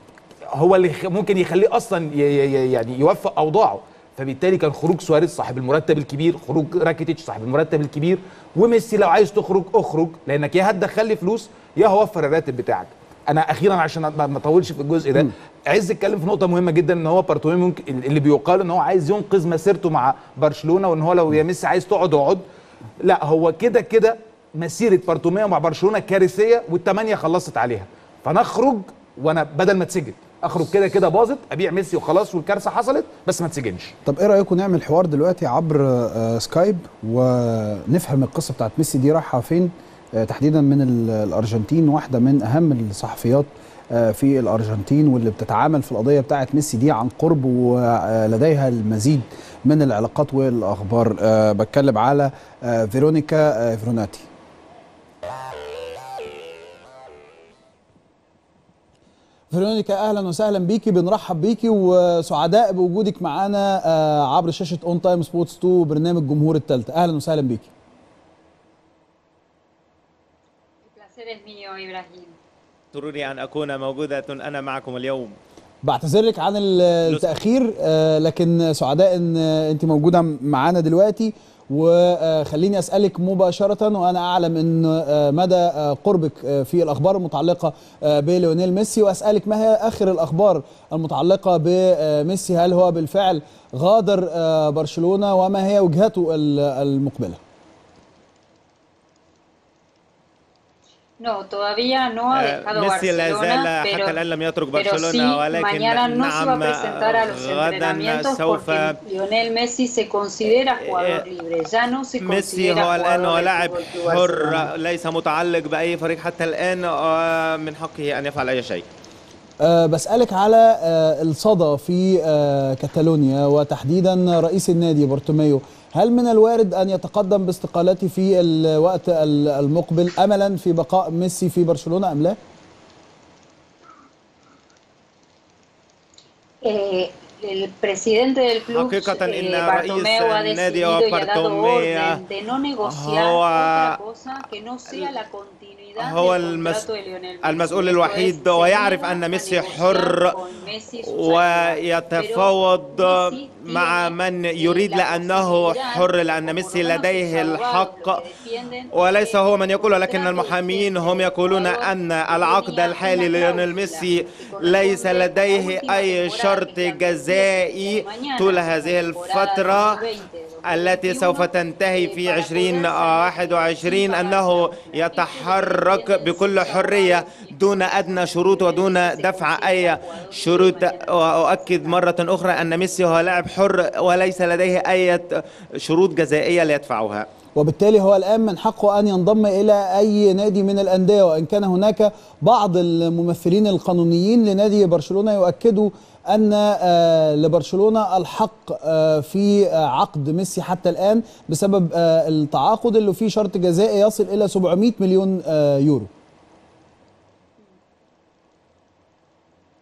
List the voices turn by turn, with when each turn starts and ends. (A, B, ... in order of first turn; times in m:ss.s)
0:00.6-0:22.4 A
0:23.0-0:33.9 A
0:34.0-0:54.2 B
0:59.5-1:07.7 B
1:10.9-1:12.4 C
1:12.9-1:15.4 D
1:15.8-1:37.4 B
1:41.2-1:44.2 C
1:42.4-1:49.0 D
1:44.7-1:54.7 C
1:50.8-1:51.2 D
1:52.2-1:58.8 D
1:59.6-2:12.4 B
2:16.6-3:02.5 C
2:18.7-2:22.2 D
2:22.8-2:24.0 D
2:26.0-2:26.8 D
2:27.4-2:30.3 D
2:31.0-2:38.2 D
2:38.9-2:50.0 D
2:50.7-3:05.3 D
3:05.8-3:07.3 D
3:07.5-3:26.1 B